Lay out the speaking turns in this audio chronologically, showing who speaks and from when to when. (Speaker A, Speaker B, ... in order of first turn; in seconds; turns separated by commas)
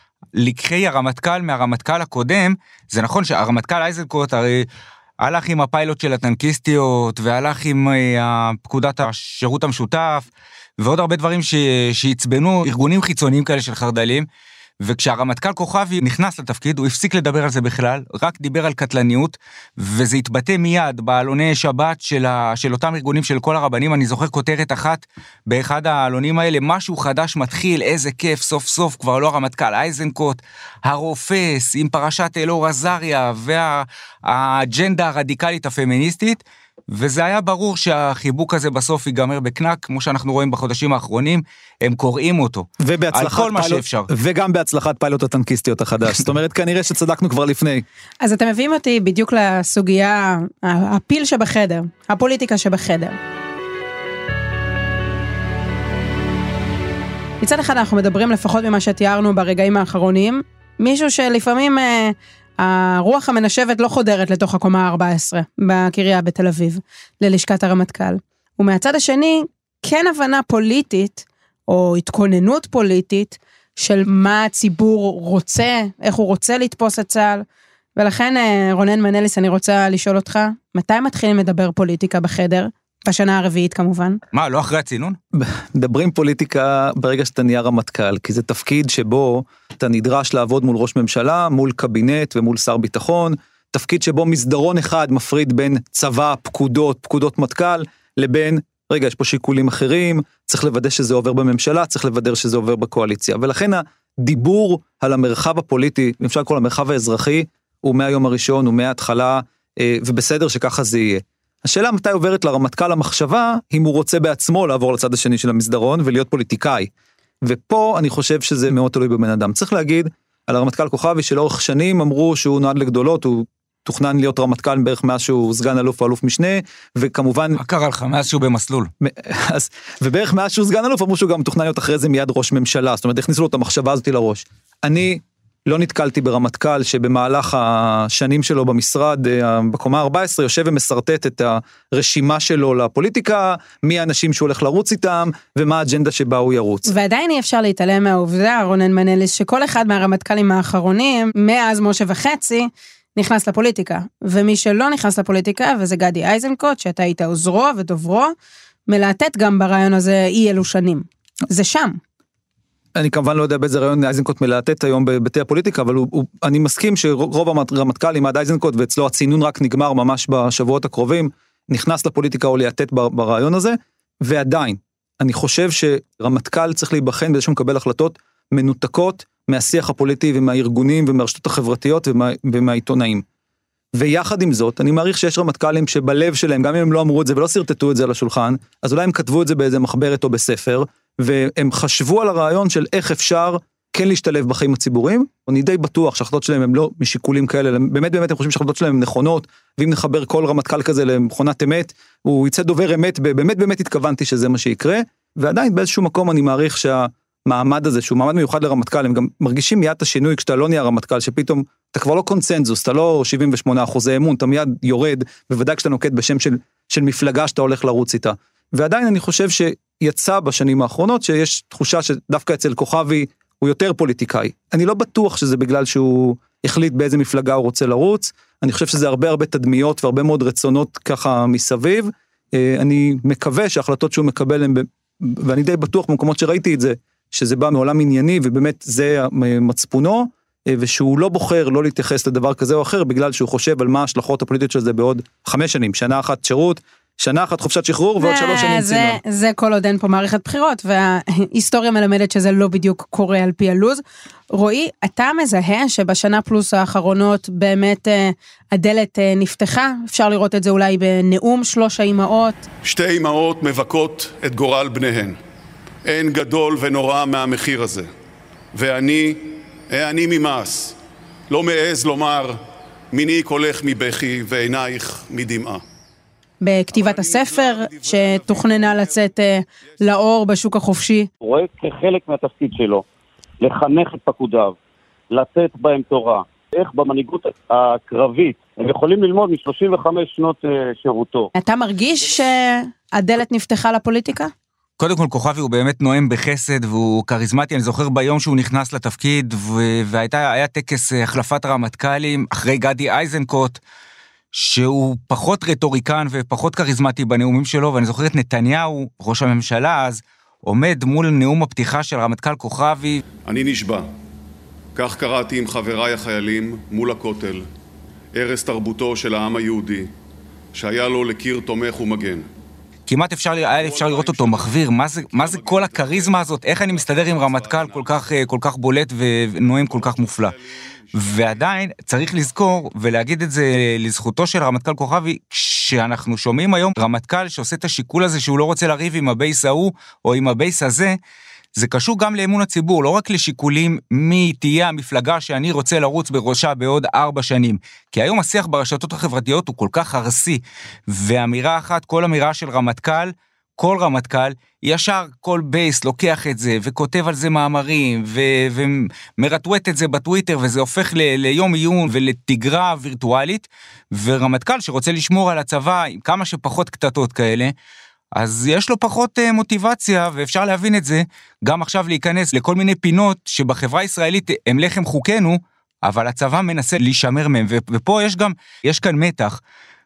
Speaker A: 0.3-4.7, Speaker A: 5.2-10.2, Speaker A: 10.8-14.2, Speaker A: 14.8-44.1, Speaker B: 42.8-47.8, Speaker C: 48.2-53.2, Speaker C: 57.4-77.4, Speaker C: 78.0-84.2, Speaker A: 84.3-85.2, Speaker B: 85.3-116.9, Speaker B: 117.4-127.6, Speaker A: 127.6-128.9, Speaker B: 129.0-146.9, Speaker C: 146.9-158.3, Speaker C: 158.9-162.0, Speaker B: 162.9-183.2, Speaker B: 183.9-249.2, Speaker C: 248.2-262.6, Speaker D: 262.8-265.4, Speaker D: 266.0-268.1, Speaker D: 268.7-271.0, Speaker D: 271.5-272.6, Speaker D: 273.1-275.8, Speaker C: 276.6-281.3, Speaker D: 276.9-279.3, Speaker E: 281.4-283.0, Speaker E: 283.6-284.8, Speaker E: 285.3-291.5, Speaker C: 291.6-294.5, Speaker A: 295.0-303.8, Speaker A: 304.5-313.2, Speaker D: 313.4-314.1, Speaker D: 314.9-317.6, Speaker D: 318.3-320.1, Speaker D: 320.7-322.4, Speaker A: 323.1-330.5, Speaker D: 323.7-328.4, Speaker D: 329.8-331.9, Speaker A: 331.1-341.1, Speaker A: 341.8-367.7, Speaker A: 368.3-379.6